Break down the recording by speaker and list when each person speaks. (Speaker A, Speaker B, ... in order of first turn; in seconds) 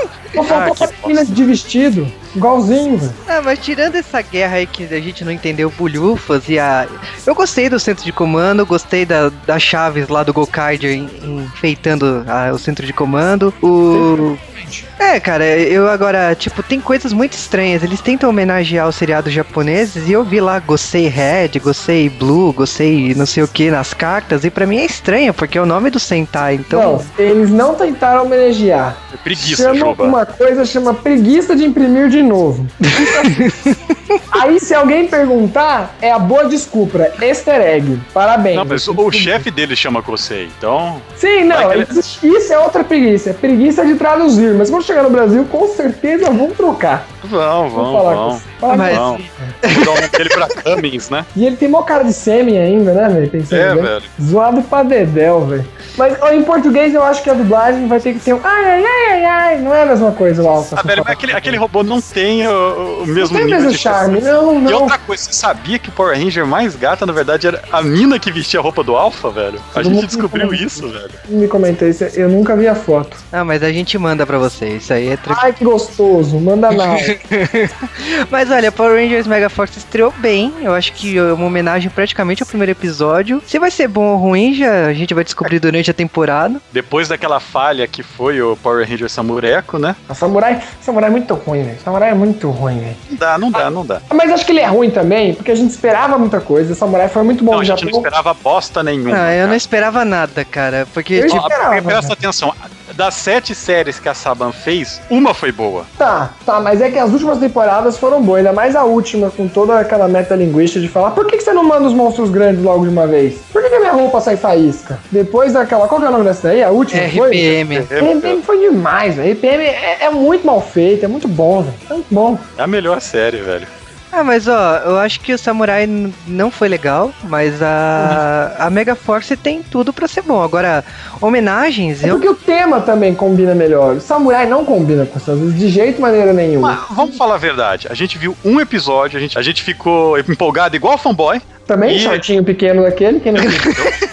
Speaker A: 0.3-3.2, 13.9-14.9, 26.7-33.4, 34.3-39.4, 41.2-47.1, 47.7-49.5, 51.3-61.6, 63.1-65.0, 69.7-73.2, 75.3-77.1, 90.1-93.0, 94.1-98.1, 101.1-102.2, 106.0-122.5, 128.0-128.2, 132.0-137.1, 141.7-143.7
Speaker B: 0.4-0.8, 3.3-14.4, 15.0-27.1, 33.0-34.2, 48.7-50.4, 73.3-75.4, 77.0-86.6, 99.1-101.5, 116.9-117.9, 124.1-132.2, 143.4-143.7
Speaker C: 0.5-1.2, 29.1-30.2, 38.5-42.0, 47.2-51.3, 53.5-54.1, 60.7-71.2, 86.7-90.0, 93.1-94.0, 97.5-99.6, 101.3-105.9, 117.7-118.4, 122.6-123.7, 136.6-142.2, 143.3-143.9